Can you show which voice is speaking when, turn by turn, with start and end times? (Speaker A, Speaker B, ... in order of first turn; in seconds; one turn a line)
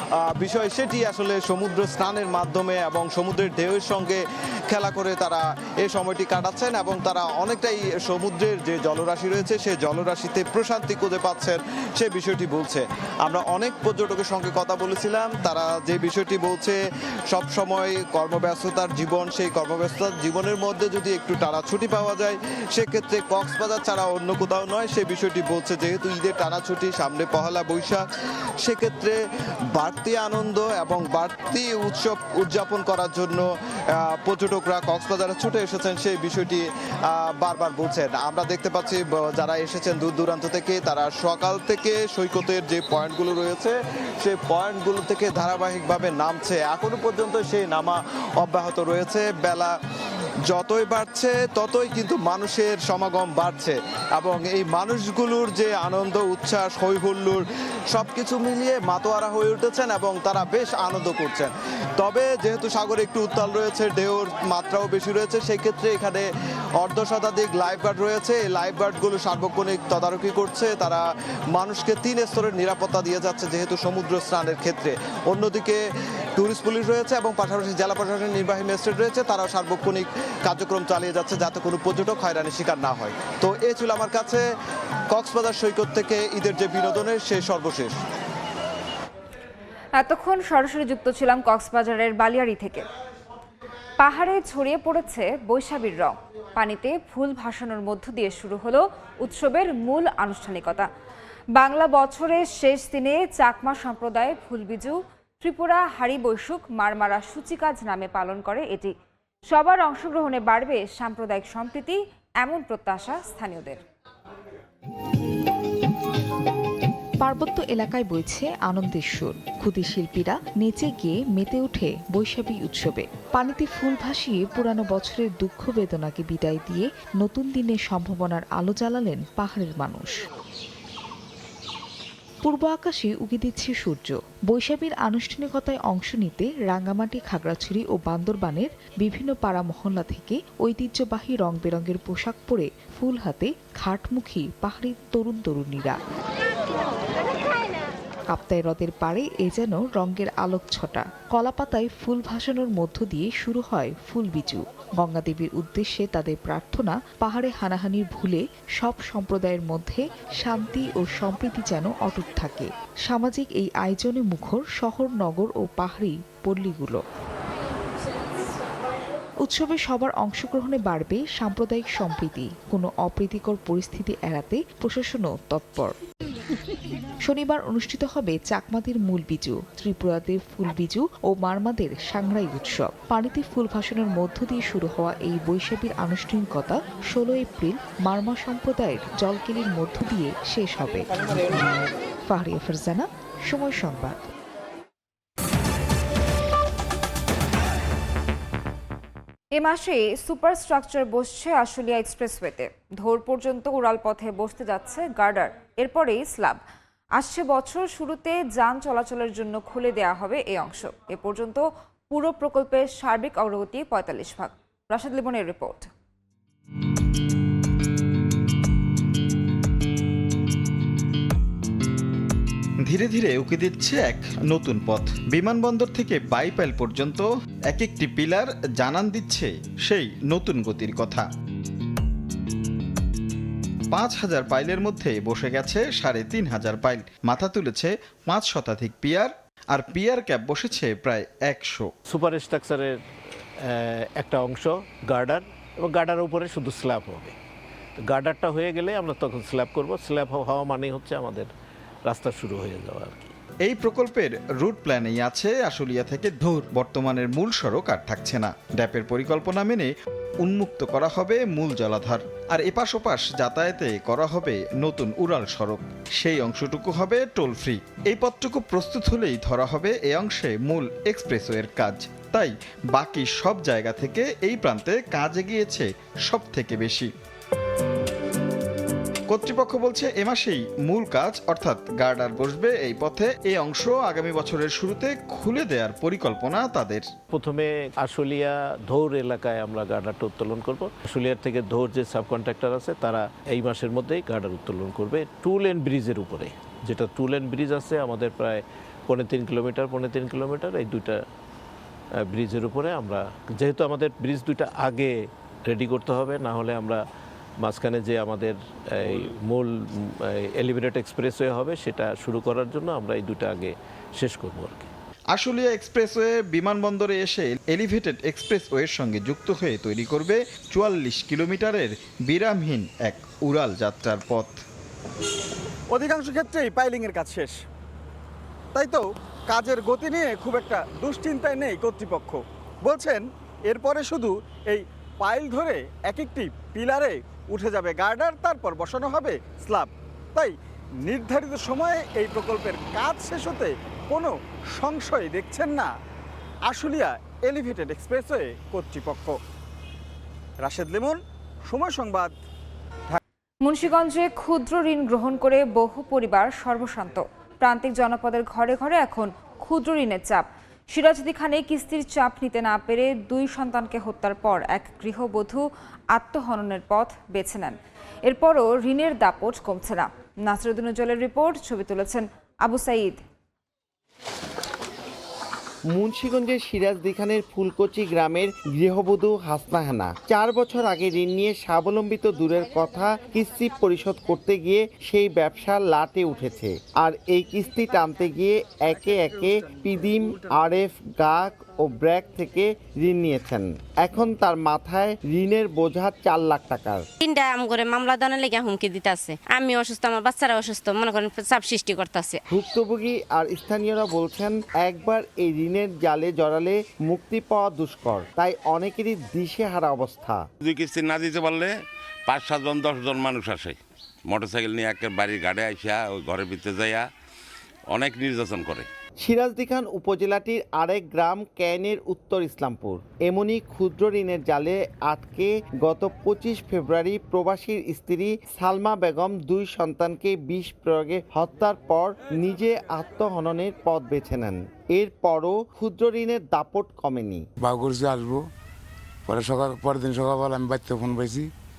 Speaker A: 0.2-28.1
Speaker A: 28.6-29.2
Speaker A: 29.7-49.8
Speaker A: 50.5-75.8
Speaker A: 76.3-84.5
Speaker A: 85.1-88.0
Speaker B: 90.0-92.9
Speaker B: 94.0-100.9
Speaker B: 101.6-108.9
Speaker B: 109.5-113.8
Speaker C: 117.2-130.2
Speaker C: 132.4-146.0
Speaker C: 148.3-167.0
Speaker C: 169.4-175.9
Speaker C: 177.2-191.1
Speaker C: 192.3-194.2
Speaker B: 199.6-206.6
Speaker B: 207.2-215.9
Speaker A: 222.9-231.2
Speaker A: 233.9-241.9
Speaker D: 242.1-243.0
Speaker D: 243.6-247.3
Speaker D: 248.1-251.5
Speaker D: 252.1-253.3
Speaker A: 253.7-259.9
Speaker A: 260.4-277.1
Speaker A: 279.3-287.1
Speaker D: 287.3-301.2
Speaker D: 302.2-305.1
Speaker D: 305.7-307.0
Speaker D: 307.6-314.9
Speaker A: 315.3-324.6
Speaker E: 325.9-327.5
Speaker E: 328.8-340.5
Speaker E: 341.1-345.9
Speaker E: 346.7-349.4
Speaker E: 350.6-351.2
Speaker E: 351.7-352.3
Speaker B: 353.6-373.2
Speaker F: 375.9-397.0
Speaker G: 397.2-402.4
Speaker F: 402.5-410.4
Speaker H: 410.6-411.7
Speaker H: 412.3-417.1
Speaker H: 417.9-418.9
Speaker F: 419.2-437.4
Speaker I: 437.6-438.5
Speaker I: 439.3-441.5